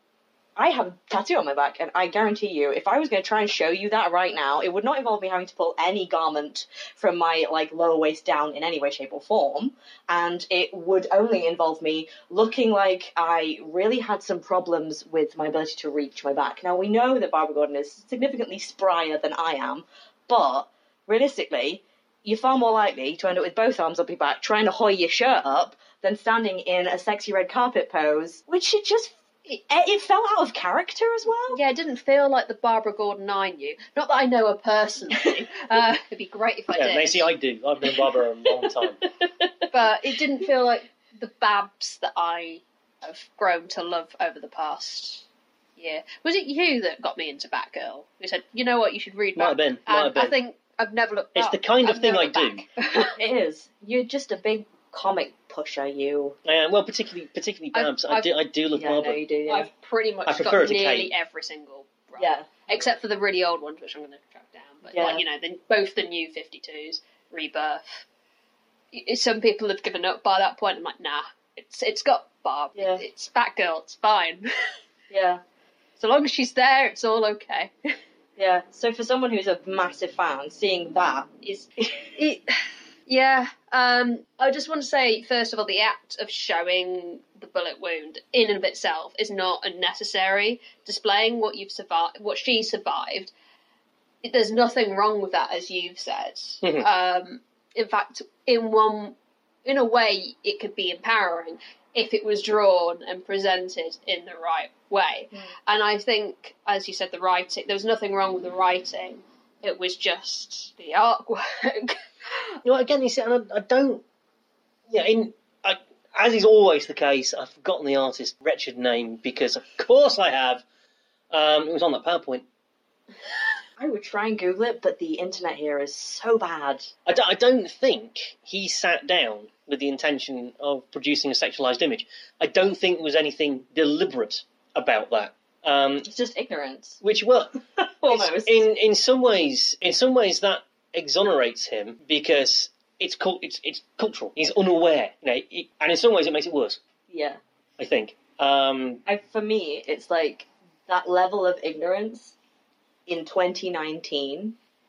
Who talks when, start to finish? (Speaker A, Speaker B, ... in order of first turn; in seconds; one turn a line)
Speaker A: 0.6-31.6
Speaker B: 31.5-37.3
Speaker C: 36.7-39.0
Speaker B: 39.7-45.2
Speaker B: 45.8-53.2
Speaker C: 49.4-50.3
Speaker C: 51.4-52.6
Speaker A: 53.2-56.4
Speaker C: 56.5-59.2
Speaker B: 57.7-58.3
Speaker A: 58.7-59.7
Speaker B: 59.5-68.0
Speaker C: 60.2-61.1
Speaker A: 62.2-62.5
Speaker A: 64.9-65.2
Speaker B: 68.9-74.7
Speaker A: 72.8-73.0
Speaker A: 75.1-75.4
Speaker B: 76.0-78.0
Speaker A: 78.4-81.4
Speaker B: 81.5-82.5
Speaker B: 83.1-93.3
Speaker B: 94.2-112.6
Speaker C: 96.6-96.9
Speaker C: 112.7-114.0
Speaker C: 114.9-120.6
Speaker C: 121.3-122.5
Speaker A: 123.8-126.9
Speaker C: 127.1-136.1
Speaker A: 136.0-137.0
Speaker C: 137.0-137.5
Speaker A: 137.8-138.7
Speaker C: 138.1-146.8
Speaker A: 147.1-147.4
Speaker C: 147.8-149.0
Speaker A: 149.1-152.3
Speaker A: 153.1-154.6